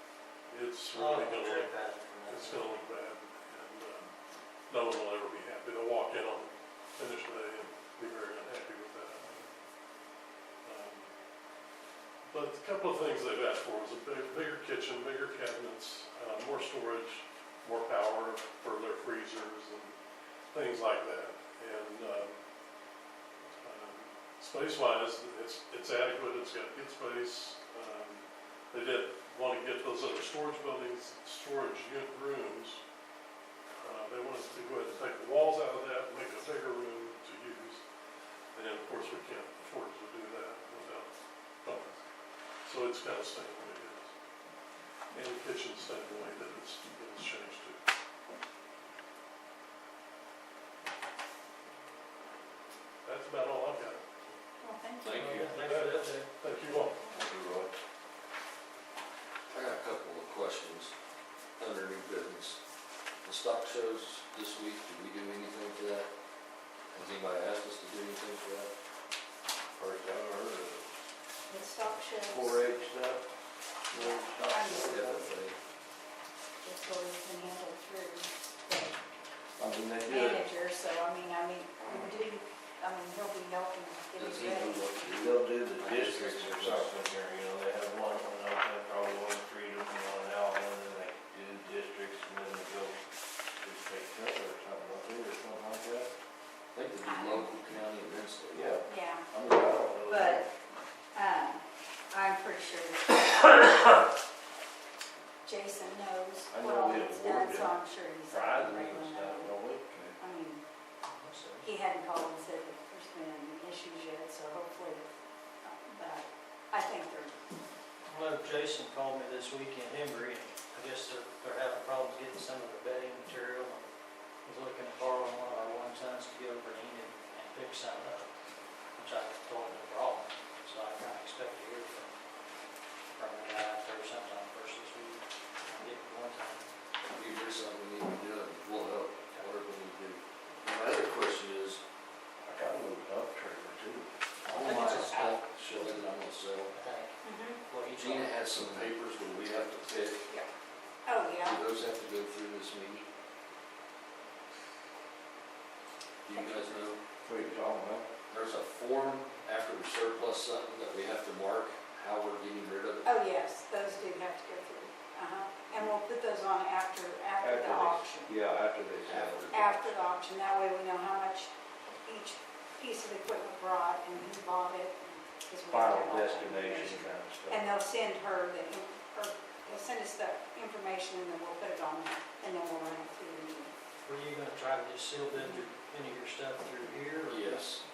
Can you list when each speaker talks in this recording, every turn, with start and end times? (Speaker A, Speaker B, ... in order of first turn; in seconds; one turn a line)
Speaker A: 0.5-1.8
Speaker B: 0.9-2.8
Speaker A: 2.3-4.1
Speaker A: 4.7-9.5
Speaker A: 10.6-11.1
Speaker A: 12.3-19.9
Speaker A: 20.5-22.3
Speaker A: 23.6-32.8
Speaker A: 33.8-37.8
Speaker A: 38.5-41.1
Speaker A: 41.6-42.0
Speaker A: 42.6-44.1
Speaker A: 45.1-47.8
Speaker A: 53.0-54.2
Speaker C: 54.6-55.2
Speaker D: 55.0-55.5
Speaker B: 55.1-56.8
Speaker A: 55.2-57.0
Speaker D: 57.1-57.7
Speaker E: 57.2-57.6
Speaker D: 59.5-60.9
Speaker D: 61.6-62.6
Speaker D: 63.2-66.1
Speaker D: 66.9-68.7
Speaker E: 69.8-70.9
Speaker C: 71.5-72.6
Speaker E: 72.3-73.2
Speaker E: 73.9-75.2
Speaker C: 73.9-75.3
Speaker D: 74.7-75.6
Speaker C: 76.6-79.0
Speaker E: 79.6-80.4
Speaker C: 80.1-84.9
Speaker D: 84.1-86.9
Speaker E: 84.8-93.0
Speaker E: 93.6-96.1
Speaker D: 96.7-98.7
Speaker C: 97.0-97.5
Speaker E: 98.5-100.5
Speaker C: 98.8-99.3
Speaker C: 100.0-100.5
Speaker C: 101.1-104.0
Speaker C: 105.4-109.5
Speaker E: 106.5-107.8
Speaker E: 108.3-110.2
Speaker C: 110.2-110.6
Speaker B: 111.0-111.7
Speaker C: 111.6-115.0
Speaker C: 115.6-117.4
Speaker B: 118.0-123.9
Speaker B: 124.4-128.3
Speaker B: 129.0-132.1
Speaker B: 133.1-136.6
Speaker D: 137.1-141.8
Speaker E: 142.4-144.1
Speaker D: 144.5-146.7
Speaker B: 144.5-146.0
Speaker E: 144.6-144.9
Speaker B: 146.7-148.3
Speaker C: 147.2-147.6
Speaker D: 147.9-150.2
Speaker C: 151.0-151.6
Speaker D: 151.4-153.1
Speaker D: 156.2-157.0
Speaker C: 156.3-156.8
Speaker E: 157.2-158.1
Speaker D: 158.3-163.1
Speaker C: 163.0-168.3
Speaker E: 167.4-169.5
Speaker D: 169.1-169.9
Speaker C: 169.5-183.7
Speaker E: 175.7-177.7
Speaker B: 184.0-187.7
Speaker C: 185.3-185.6
Speaker D: 187.2-187.8